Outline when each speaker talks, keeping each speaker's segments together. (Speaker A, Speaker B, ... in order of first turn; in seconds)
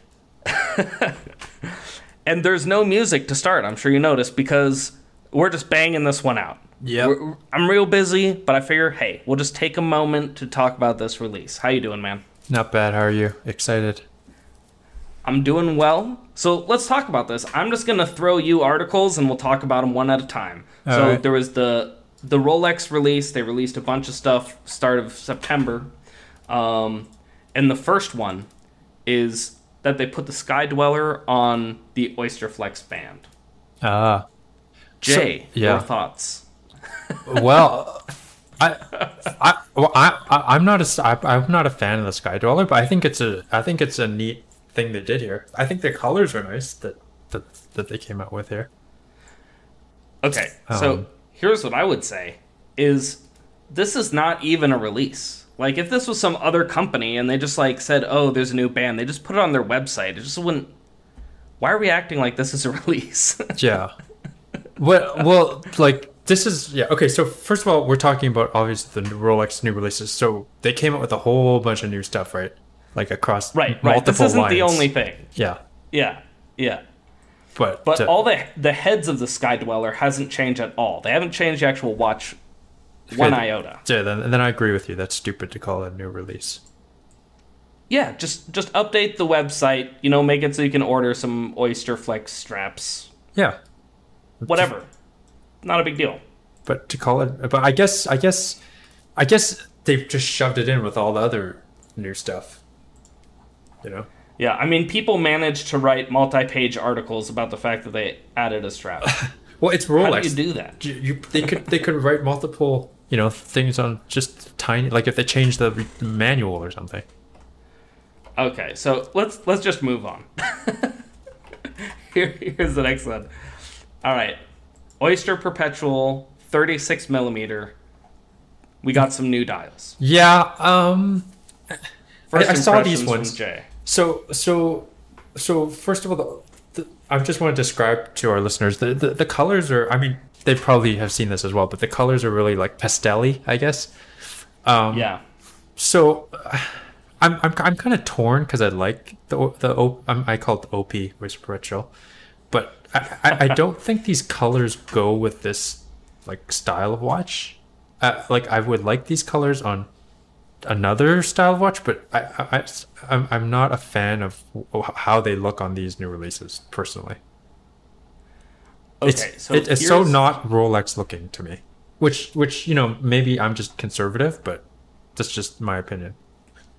Speaker A: 0.5-12.2, 15.2-25.9, 26.5-28.5, 29.1-33.3, 35.0-36.5, 37.1-37.6, 38.9-39.3, 50.2-60.7, 61.6-63.6, 73.5-75.3, 75.9-76.8, 77.9-82.4, 83.1-83.8, 87.9-93.1, 94.5-94.9, 95.6-96.2, 104.4-109.2, 110.0-110.8, 111.4-111.7, 118.4-121.0, 121.8-123.3, 124.0-124.4, 125.0-127.8, 128.8-130.0, 132.3-133.7, 144.9-145.2, 169.0-170.2
Speaker B: 6.8-7.1, 12.5-14.0, 20.9-21.2, 33.8-34.3, 35.0-35.9, 37.3-38.1, 38.6-48.7, 50.7-51.0, 63.6-63.9, 64.8-75.6, 77.5-78.1, 83.1-86.6, 94.4-94.7, 96.7-98.6, 99.2-102.6, 103.8-104.1, 109.0-117.0, 130.0-131.3, 132.3-143.9, 144.6-145.1, 145.8-151.9, 152.5-159.9, 160.7-167.2, 169.1-174.7, 175.2-176.2